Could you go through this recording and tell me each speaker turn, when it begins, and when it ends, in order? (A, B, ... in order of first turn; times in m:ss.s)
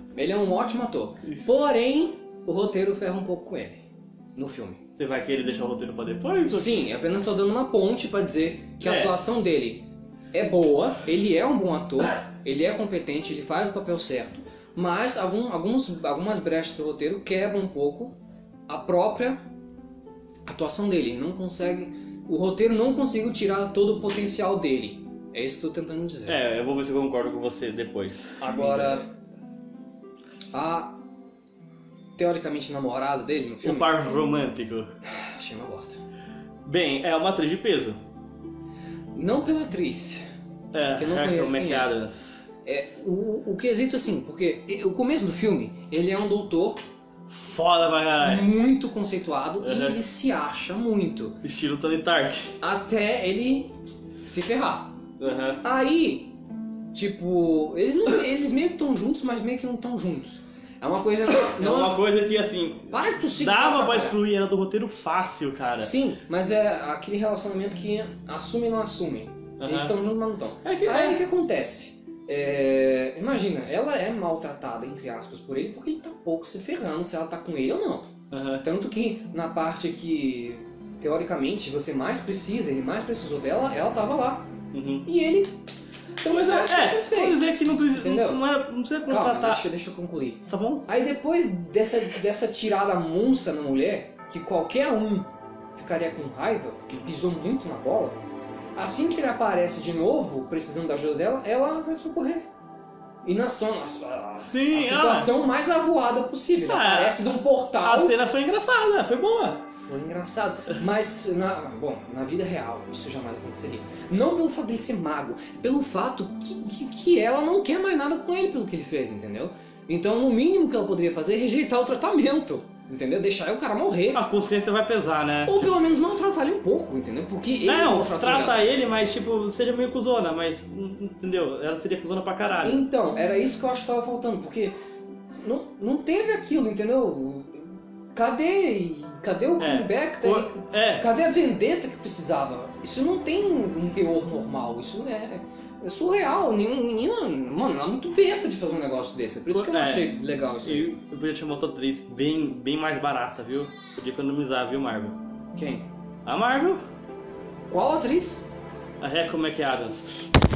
0:00.2-0:04.8 A
0:01.2-0:01.7 B
0:05.0-0:06.8 B
0:06.5-0:18.2 A
0:08.8-0:09.2 B
0:18.7-0:19.4 A
0:20.5-0:26.4 A
0:26.3-0:29.0 B
0:28.4-0:29.1 A
0:30.5-0:31.0 A
0:32.2-0:33.9 A
0:33.6-0:35.0 B
0:35.1-0:36.0 A
0:36.6-0:38.0 B
0:39.1-0:40.3 A
0:40.7-0:42.4 B
0:40.9-0:41.9 A
0:42.6-0:46.8 A
0:47.3-0:48.5 B
0:48.2-0:51.4 A
0:49.6-0:50.0 B
0:51.4-0:52.6 B
0:52.6-0:55.0 A
0:55.2-0:55.6 B
0:55.6-0:56.4 A
0:56.9-1:02.0 A
1:01.3-1:06.0 B
1:02.9-1:04.2 A
1:05.8-1:24.5 A
1:09.6-1:10.0 B
1:10.6-1:11.2 B
1:18.3-1:18.6 B
1:24.7-1:25.1 B
1:25.0-1:25.6 A
1:26.2-1:28.4 A
1:26.2-1:29.6 B
1:29.1-1:38.2 A
1:30.5-1:30.9 B
1:38.8-1:42.5 A
1:43.2-1:48.2 A
1:44.4-1:45.3 B
1:46.7-1:49.7 B
1:49.7-2:04.2 A
2:04.1-2:05.7 B
2:05.5-2:08.6 A
2:07.6-2:12.8 B
2:12.6-2:14.8 A
2:15.4-2:31.0 A
2:19.6-2:21.1 B
2:29.5-2:35.2 B
2:35.6-2:35.9 A
2:36.2-2:36.8 B
2:37.7-2:38.5 A
2:39.0-2:40.3 B